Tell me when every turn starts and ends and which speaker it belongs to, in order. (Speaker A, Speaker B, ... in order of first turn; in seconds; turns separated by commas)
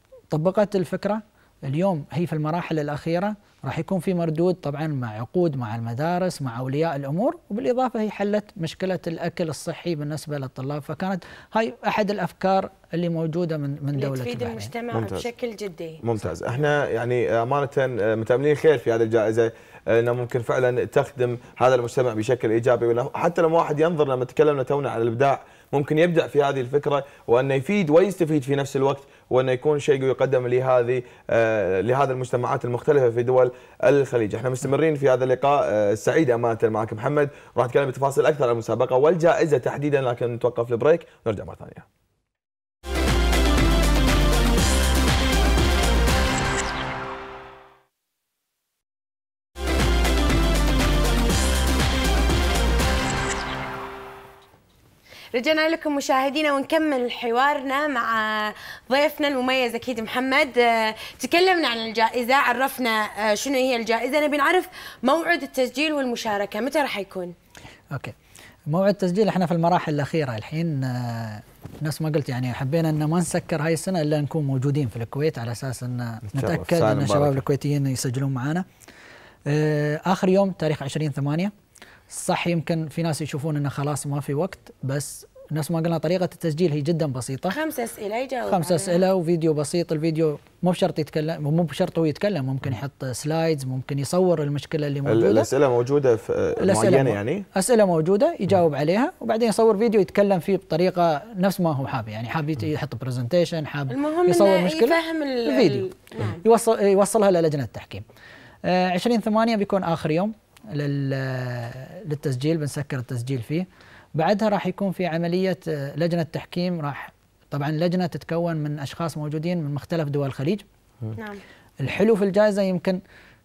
Speaker A: 0.3-14.7, Speaker B: 14.0-16.0, Speaker C: 14.9-15.3, Speaker C: 16.0-41.9, Speaker B: 55.3-67.3, Speaker A: 68.7-78.7, Speaker C: 76.3-77.4, Speaker A: 79.5-81.5, Speaker A: 82.1-87.6, Speaker B: 87.5-89.0, Speaker A: 88.5-95.5, Speaker C: 95.1-97.5, Speaker A: 96.6-105.9, Speaker B: 103.9-106.4, Speaker A: 106.4-108.0, Speaker A: 108.7-120.7, Speaker B: 121.2-121.4, Speaker A: 121.8-123.0